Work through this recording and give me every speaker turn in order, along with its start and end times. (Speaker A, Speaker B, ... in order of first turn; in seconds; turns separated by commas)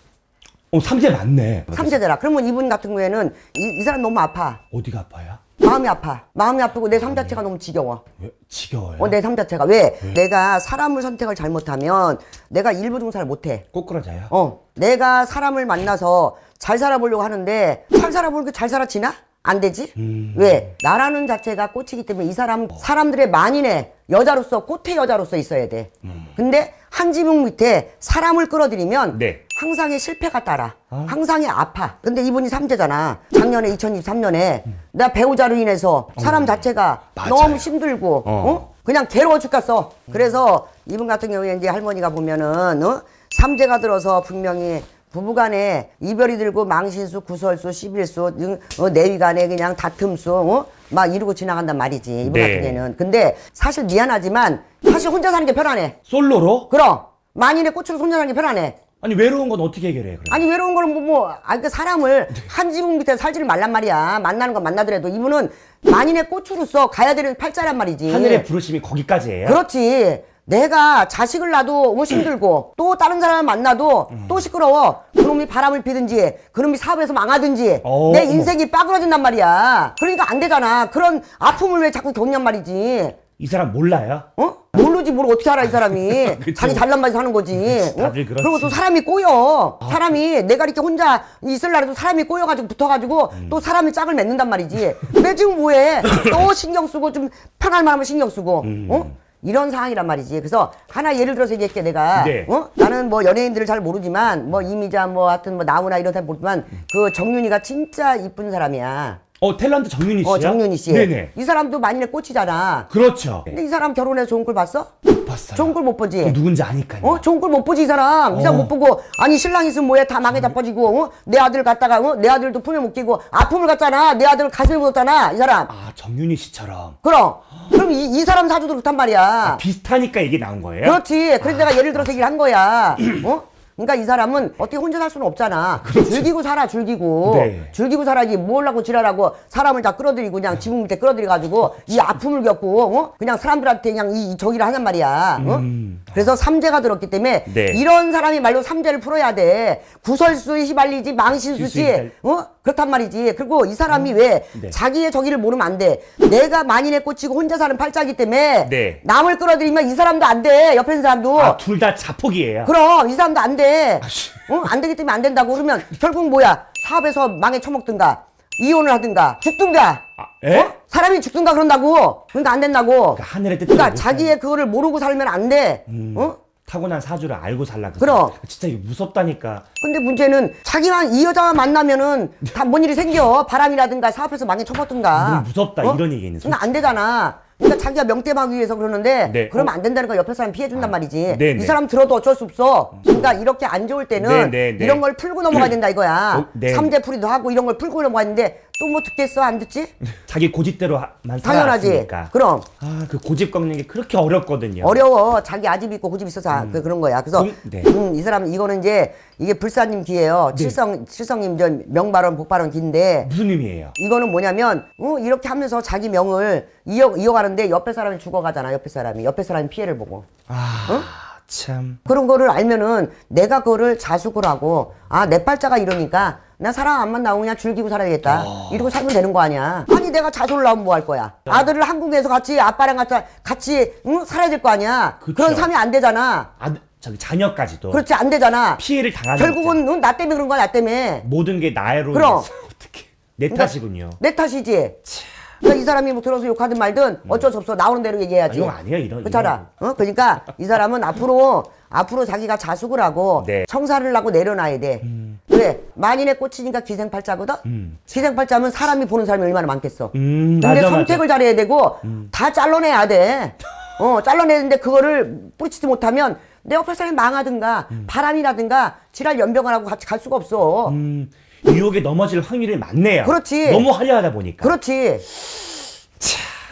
Speaker A: 0.7-2.0, Speaker B: 1.7-4.6, Speaker A: 4.7-5.4, Speaker B: 5.6-8.0, Speaker A: 7.1-7.4, Speaker A: 8.2-9.2, Speaker B: 9.0-13.7, Speaker A: 13.7-14.3, Speaker B: 14.3-56.0, Speaker A: 20.0-20.7, Speaker A: 29.1-29.4, Speaker A: 36.2-36.6, Speaker A: 37.2-37.7, Speaker A: 38.2-38.7, Speaker A: 52.2-52.8, Speaker A: 56.1-56.7, Speaker B: 56.7-58.8, Speaker A: 59.0-60.4, Speaker B: 60.3-68.5, Speaker A: 68.1-69.6, Speaker B: 69.5-83.2, Speaker A: 74.2-74.5, Speaker A: 77.8-78.5, Speaker A: 83.4-84.3, Speaker B: 84.4-109.2, Speaker A: 85.6-86.8, Speaker A: 87.5-88.8, Speaker A: 98.6-99.2, Speaker A: 102.2-102.5, Speaker A: 109.4-111.3, Speaker B: 110.2-112.9, Speaker A: 112.9-113.6, Speaker B: 113.5-114.9, Speaker A: 115.1-117.2, Speaker B: 115.5-116.4, Speaker B: 117.0-125.7, Speaker A: 118.3-118.7, Speaker A: 125.7-127.0, Speaker B: 127.0-129.6, Speaker A: 129.4-132.1, Speaker B: 130.8-161.6, Speaker A: 135.8-136.3, Speaker A: 137.2-137.7, Speaker A: 145.4-146.3, Speaker A: 147.5-147.8, Speaker A: 151.5-152.1, Speaker A: 153.9-154.8, Speaker A: 158.7-159.0, Speaker A: 161.3-162.7, Speaker B: 162.7-176.4, Speaker A: 164.0-164.5, Speaker A: 170.2-170.7, Speaker A: 173.2-174.3, Speaker A: 175.9-179.7, Speaker B: 178.0-178.3, Speaker B: 179.8-199.9, Speaker A: 185.1-186.9, Speaker A: 189.2-189.7, Speaker A: 190.8-191.8, Speaker A: 193.0-193.3, Speaker A: 194.2-195.7, Speaker A: 196.3-196.9, Speaker A: 200.2-205.0, Speaker B: 201.4-202.7, Speaker B: 204.8-213.3, Speaker A: 206.5-207.9, Speaker A: 213.2-213.9, Speaker B: 214.0-220.3, Speaker A: 220.5-222.0, Speaker B: 222.1-236.5, Speaker A: 228.3-228.9, Speaker A: 235.2-235.7, Speaker A: 236.6-238.0, Speaker B: 237.9-238.8, Speaker A: 238.8-239.8, Speaker B: 239.3-241.3, Speaker A: 241.2-244.2, Speaker B: 242.1-242.5, Speaker B: 243.5-245.0, Speaker B: 245.6-271.0, Speaker A: 248.5-249.7, Speaker A: 253.4-253.7, Speaker A: 255.1-255.4, Speaker A: 257.6-258.1, Speaker A: 260.1-261.2, Speaker A: 270.9-274.8, Speaker B: 273.2-273.9, Speaker B: 274.6-275.2, Speaker A: 276.2-276.5